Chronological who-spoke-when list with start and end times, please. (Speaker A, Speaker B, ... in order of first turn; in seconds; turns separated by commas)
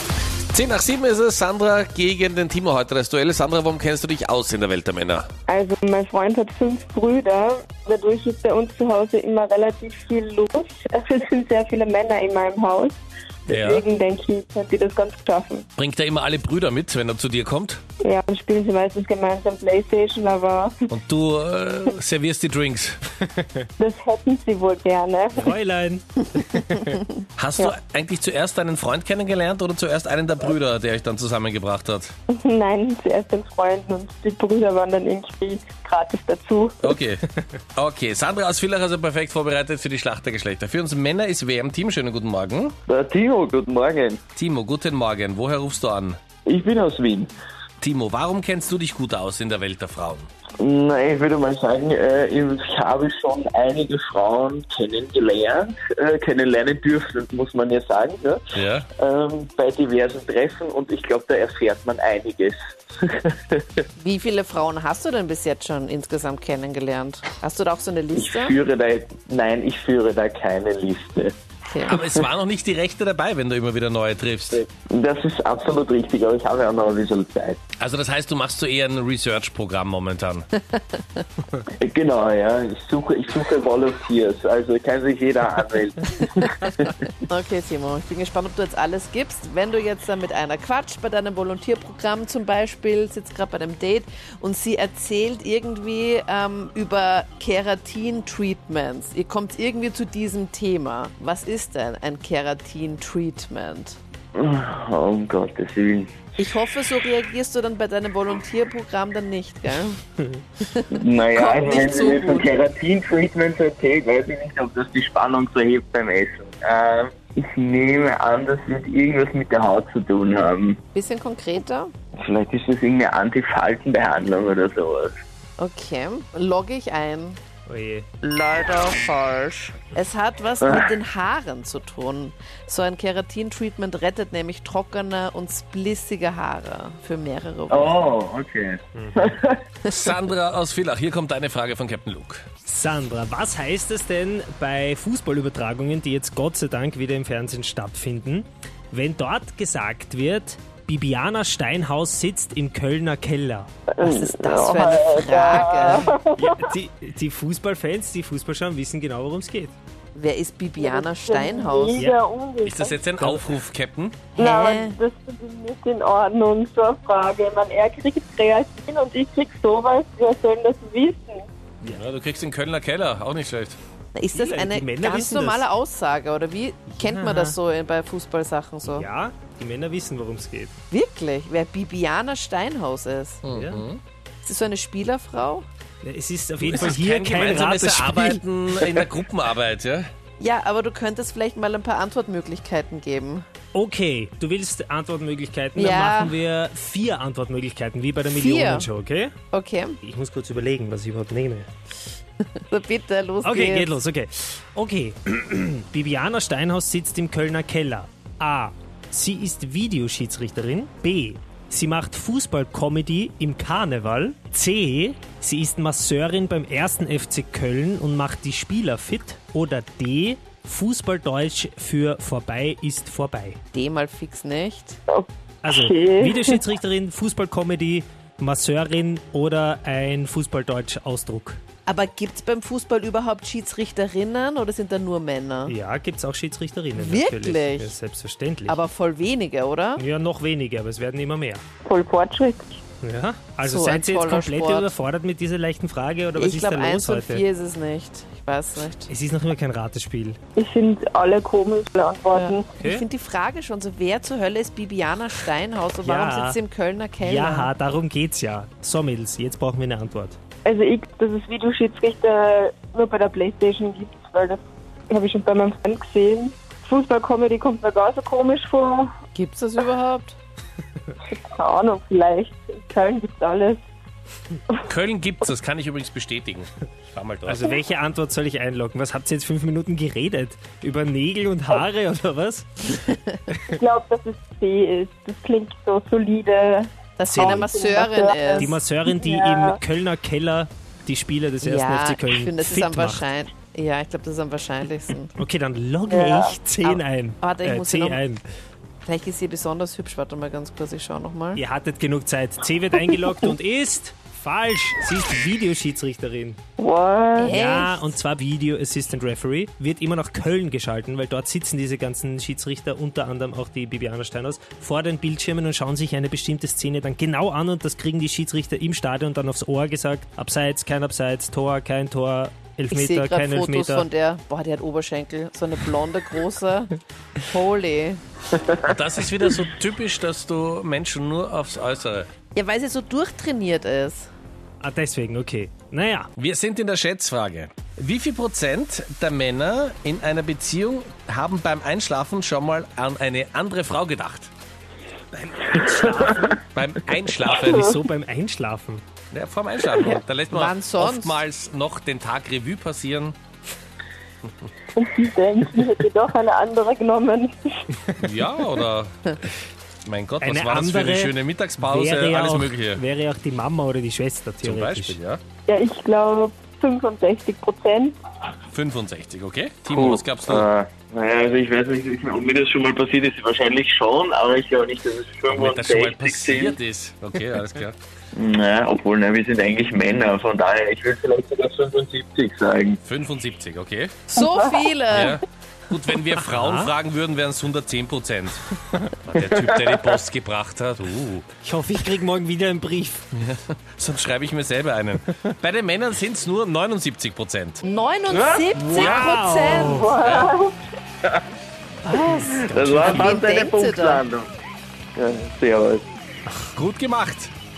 Speaker A: 0.5-5.3, Speaker B: 5.5-15.7, Speaker A: 13.5-13.8, Speaker A: 15.8-17.8, Speaker B: 18.0-20.9, Speaker A: 20.9-23.0, Speaker C: 23.4-23.6, Speaker B: 23.8-25.6, Speaker C: 25.4-27.0, Speaker A: 27.4-32.1, Speaker B: 32.3-36.9, Speaker A: 36.8-42.8, Speaker D: 42.9-44.2, Speaker A: 44.4-46.2, Speaker D: 46.5-47.3, Speaker A: 47.8-50.3, Speaker D: 50.6-58.4, Speaker A: 58.5-58.9, Speaker D: 59.0-63.6, Speaker E: 64.0-68.6, Speaker D: 68.2-71.3, Speaker E: 71.7-72.0, Speaker A: 71.8-74.6, Speaker D: 74.5-77.6, Speaker A: 77.8-80.5, Speaker E: 80.7-81.2, Speaker D: 81.8-87.0, Speaker E: 87.3-104.0, Speaker D: 104.3-106.3, Speaker E: 106.4-110.0, Speaker E: 110.6-112.6, Speaker D: 110.9-120.8, Speaker E: 120.9-121.9, Speaker D: 122.2-125.1, Speaker E: 125.6-127.4, Speaker C: 127.7-128.1, Speaker E: 128.2-138.0, Speaker D: 130.6-130.9, Speaker D: 137.7-139.6, Speaker A: 139.9-142.4, Speaker C: 142.7-153.7, Speaker B: 154.0-156.6, Speaker E: 154.0-156.2, Speaker C: 156.4-159.8, Speaker E: 160.2-162.1, Speaker B: 160.8-163.0, Speaker A: 162.7-164.3, Speaker C: 163.2-163.4, Speaker E: 164.4-165.0, Speaker B: 164.4-171.5, Speaker A: 171.9-173.8, Speaker E: 174.2-179.1, Speaker C: 174.3-175.7, Speaker C: 176.9-177.6, Speaker C: 178.8-180.7, Speaker E: 180.9-183.4, Speaker A: 183.4-184.0, Speaker C: 183.5-183.8, Speaker E: 184.4-185.7, Speaker C: 186.0-188.4, Speaker A: 186.6-190.1, Speaker E: 190.4-193.5, Speaker C: 193.7-199.3, Speaker E: 195.8-196.4, Speaker E: 198.3-198.9, Speaker E: 199.5-200.0, Speaker C: 200.0-201.7, Speaker E: 202.7-204.0, Speaker C: 203.4-223.6, Speaker E: 223.7-225.0, Speaker B: 225.1-226.6, Speaker C: 225.6-231.6, Speaker E: 231.9-235.8, Speaker C: 235.7-238.8, Speaker E: 236.9-237.9, Speaker E: 238.7-240.0, Speaker C: 240.0-241.6, Speaker B: 241.8-242.8, Speaker C: 243.0-247.4, Speaker E: 243.6-244.9, Speaker E: 246.4-249.1, Speaker C: 249.1-250.4, Speaker B: 250.6-252.8, Speaker E: 252.3-257.7, Speaker C: 252.8-253.1, Speaker C: 256.1-256.6, Speaker C: 257.2-260.4, Speaker B: 260.6-269.1, Speaker E: 269.3-270.4, Speaker B: 271.3-273.8, Speaker A: 274.9-277.6, Speaker C: 277.5-283.1, Speaker B: 283.7-289.8, Speaker E: 287.2-288.7, Speaker C: 287.3-287.7, Speaker C: 288.6-293.3, Speaker E: 291.6-295.3, Speaker C: 295.4-298.4, Speaker B: 296.1-296.6, Speaker E: 296.8-298.2, Speaker E: 299.1-301.6, Speaker C: 301.6-306.6, Speaker B: 306.8-307.5, Speaker E: 307.4-308.2, Speaker C: 307.5-324.1, Speaker E: 322.9-327.0, Speaker E: 327.5-328.2, Speaker A: 328.8-332.3, Speaker E: 332.5-334.3, Speaker C: 334.8-336.3, Speaker A: 336.4-344.5, Speaker C: 345.4-346.6, Speaker A: 345.7-347.9, Speaker B: 347.6-348.0, Speaker C: 347.6-349.0, Speaker A: 349.3-353.4, Speaker E: 350.0-351.4, Speaker B: 354.9-357.9, Speaker A: 358.2-359.4, Speaker A: 360.1-363.0, Speaker C: 360.4-365.2, Speaker A: 364.6-365.4, Speaker B: 365.7-368.2, Speaker A: 368.7-370.7, Speaker D: 369.9-376.8, Speaker A: 375.5-378.0, Speaker D: 378.4-383.0, Speaker A: 383.0-384.1, Speaker E: 384.3-385.4, Speaker B: 384.4-384.9, Speaker A: 385.1-388.6, Speaker C: 386.5-386.9, Speaker A: 389.2-391.4, Speaker D: 389.5-390.0, Speaker C: 391.6-393.3, Speaker A: 393.4-397.8, Speaker E: 397.8-400.1, Speaker D: 398.3-398.7, Speaker C: 398.8-400.1, Speaker A: 398.9-400.5, Speaker B: 399.9-400.8, Speaker C: 402.1-403.4, Speaker E: 402.1-402.4, Speaker D: 402.4-404.5, Speaker E: 403.0-404.2, Speaker D: 405.2-406.1, Speaker A: 406.8-407.5